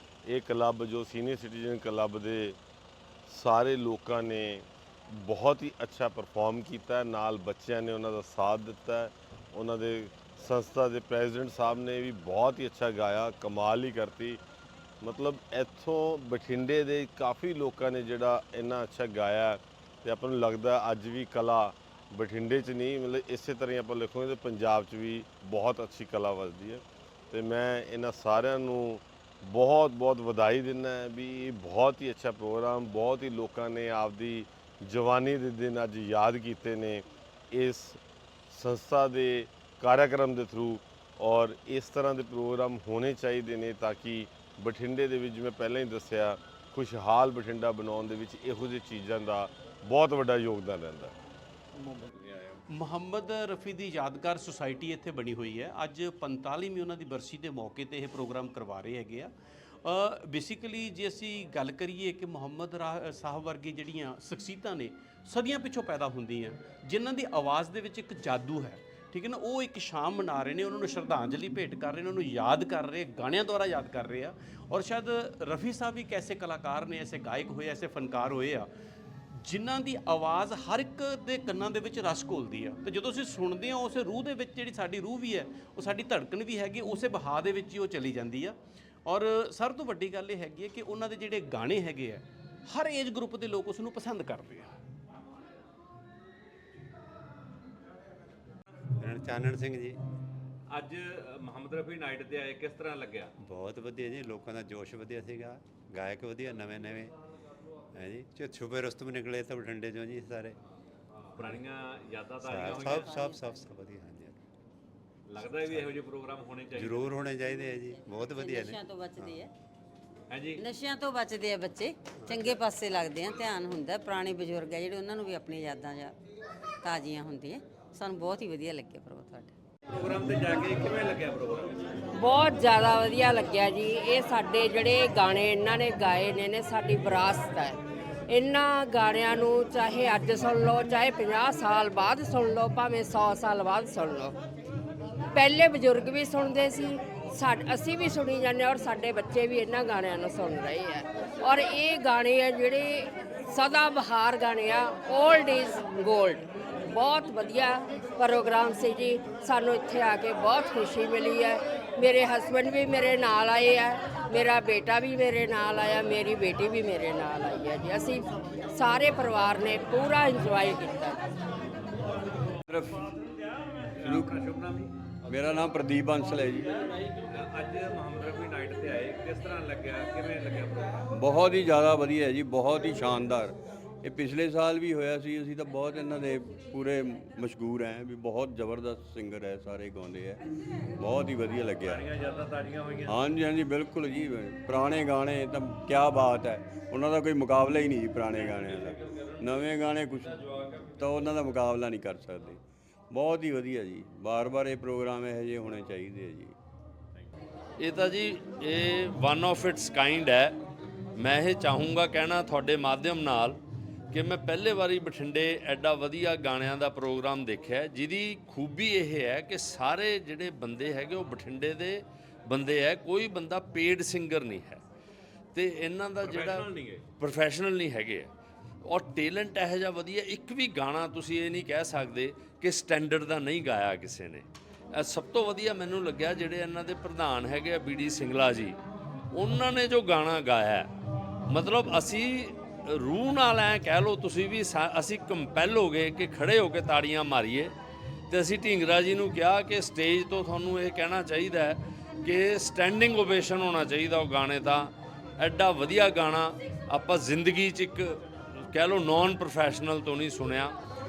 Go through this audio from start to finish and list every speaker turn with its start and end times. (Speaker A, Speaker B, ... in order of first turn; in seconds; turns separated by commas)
Speaker A: 0.3-2.6, Speaker A: 3.3-14.4, Speaker A: 15.0-38.0, Speaker A: 38.5-51.1, Speaker B: 51.8-52.1, Speaker B: 52.7-59.3, Speaker B: 59.8-78.7, Speaker B: 79.4-94.7, Speaker C: 99.0-100.0, Speaker D: 100.7-103.3, Speaker C: 103.4-107.1, Speaker C: 107.9-110.6, Speaker C: 111.4-111.7, Speaker D: 111.4-113.0, Speaker C: 112.4-114.4, Speaker E: 112.8-113.6, Speaker D: 115.3-117.2, Speaker C: 115.4-116.1, Speaker C: 116.7-119.4, Speaker E: 118.3-119.5, Speaker D: 120.3-120.6, Speaker E: 120.6-126.1, Speaker C: 122.1-122.6, Speaker E: 126.8-129.5, Speaker D: 129.9-131.7, Speaker F: 132.1-144.3, Speaker F: 145.3-171.2, Speaker G: 172.6-173.2, Speaker G: 174.0-174.3, Speaker D: 174.0-174.9, Speaker G: 175.3-176.9, Speaker D: 177.1-181.0, Speaker G: 181.1-190.4, Speaker G: 191.0-192.1, Speaker D: 191.9-193.1, Speaker G: 193.1-206.5, Speaker H: 207.8-210.6, Speaker H: 211.2-213.6, Speaker H: 214.1-224.8, Speaker H: 225.5-226.7, Speaker D: 226.2-227.0, Speaker H: 227.2-228.3, Speaker H: 228.8-238.8, Speaker H: 239.3-240.9, Speaker H: 241.5-247.7, Speaker H: 248.3-258.2, Speaker H: 258.7-260.7